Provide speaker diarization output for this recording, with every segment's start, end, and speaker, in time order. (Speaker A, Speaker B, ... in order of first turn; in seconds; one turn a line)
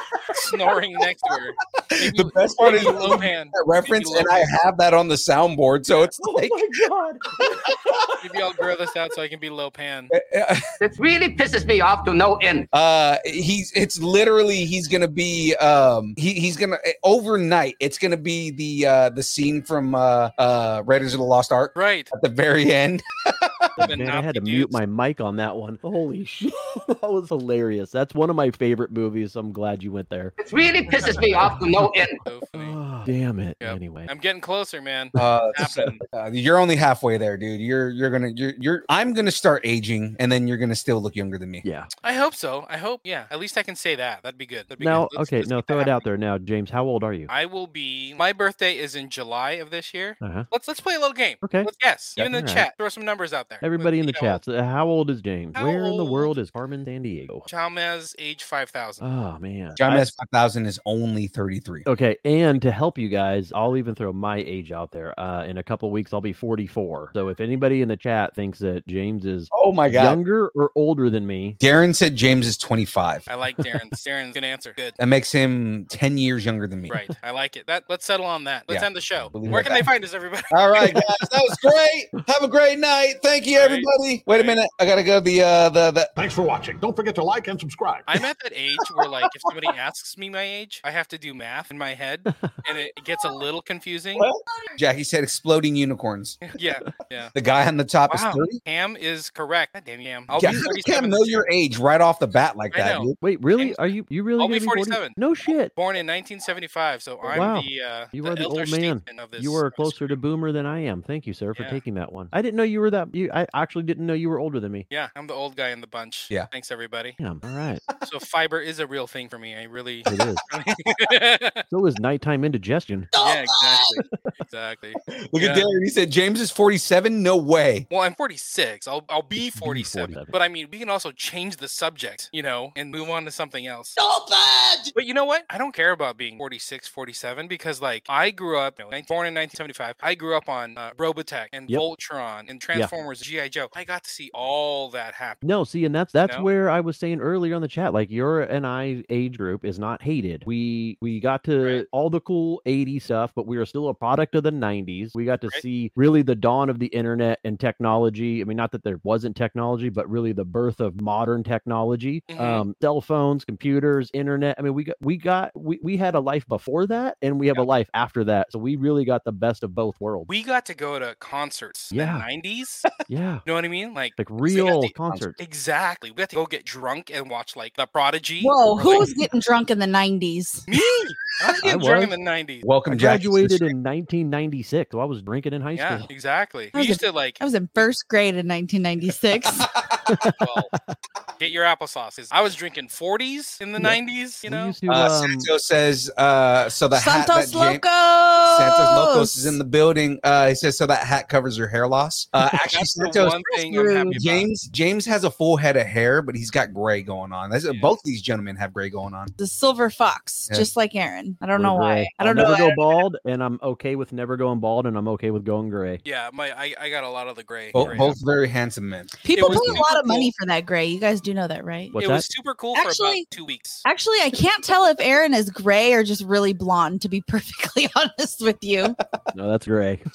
Speaker A: 0.3-4.5
Speaker B: 2.0-6.9
Speaker C: 6.2-7.2
Speaker B: 7.5-8.0
Speaker A: 8.2-10.1
Speaker B: 10.1-10.6
Speaker D: 10.8-12.7
Speaker B: 12.7-23.6
Speaker A: 21.7-22.1
Speaker C: 23.8-30.3
Speaker A: 23.8-24.8
Speaker D: 30.4-32.2
Speaker A: 32.2-32.8
Speaker C: 32.5-34.1
Speaker A: 33.6-36.0
Speaker B: 35.1-41.6
Speaker C: 41.6-41.9
Speaker A: 42.0-46.0
Speaker C: 44.8-47.3
Speaker A: 47.3-54.4
Speaker C: 50.2-50.5
Speaker C: 51.4-52.7
Speaker C: 53.6-57.5
Speaker A: 55.5-56.3
Speaker A: 57.5-59.0
Speaker C: 59.0-60.1
Speaker B: 59.8-61.9
Speaker C: 61.8-71.6
Speaker B: 69.5-70.2
Speaker B: 71.6-73.2
Speaker A: 73.3-75.0
Speaker B: 75.0-77.0
Speaker A: 76.9-81.0
Speaker B: 78.7-79.9
Speaker B: 80.5-86.1
Speaker A: 83.5-84.6
Speaker E: 86.2-88.2
Speaker A: 88.1-94.3
Speaker B: 94.2-96.4
Speaker A: 96.4-97.3
Speaker B: 97.3-98.6
Speaker A: 98.1-101.4
Speaker B: 100.4-103.2
Speaker A: 102.7-110.2
Speaker C: 103.2-105.7
Speaker C: 107.3-114.8
Speaker A: 111.5-111.8
Speaker A: 114.9-117.2
Speaker C: 117.2-117.8
Speaker A: 118.0-121.6
Speaker C: 120.0-120.4
Speaker C: 121.7-123.1
Speaker D: 123.1-124.0
Speaker A: 123.2-125.7
Speaker B: 125.2-127.9
Speaker A: 127.9-133.9
Speaker C: 129.3-130.3
Speaker D: 134.0-134.9
Speaker A: 134.9-145.4
Speaker C: 145.4-170.3
Speaker A: 151.6-151.8
Speaker A: 162.3-162.6
Speaker A: 170.3-172.9
Speaker C: 171.9-172.2
Speaker C: 173.1-173.4
Speaker A: 173.4-179.1
Speaker C: 174.2-175.4
Speaker F: 178.4-180.7
Speaker A: 180.7-182.7
Speaker C: 181.6-182.1
Speaker B: 182.6-183.7
Speaker C: 182.9-186.1
Speaker A: 185.7-187.9
Speaker F: 186.7-189.7
Speaker B: 189.9-190.1
Speaker C: 190.1-190.9
Speaker A: 190.4-190.7
Speaker A: 191.4-194.8
Speaker C: 193.8-195.5
Speaker B: 194.9-197.8
Speaker F: 196.9-199.6
Speaker B: 198.5-203.4
Speaker A: 202.7-204.5
Speaker F: 203.4-204.2
Speaker B: 204.1-209.3
Speaker A: 207.7-207.9
Speaker F: 209.4-213.0
Speaker C: 211.6-216.0
Speaker A: 216.0-218.2
Speaker B: 217.7-219.8
Speaker C: 217.8-218.1
Speaker F: 219.2-221.9
Speaker A: 219.3-220.3
Speaker C: 221.9-222.2
Speaker A: 221.9-223.8
Speaker F: 222.7-223.3
Speaker F: 223.8-229.0
Speaker C: 229.3-230.0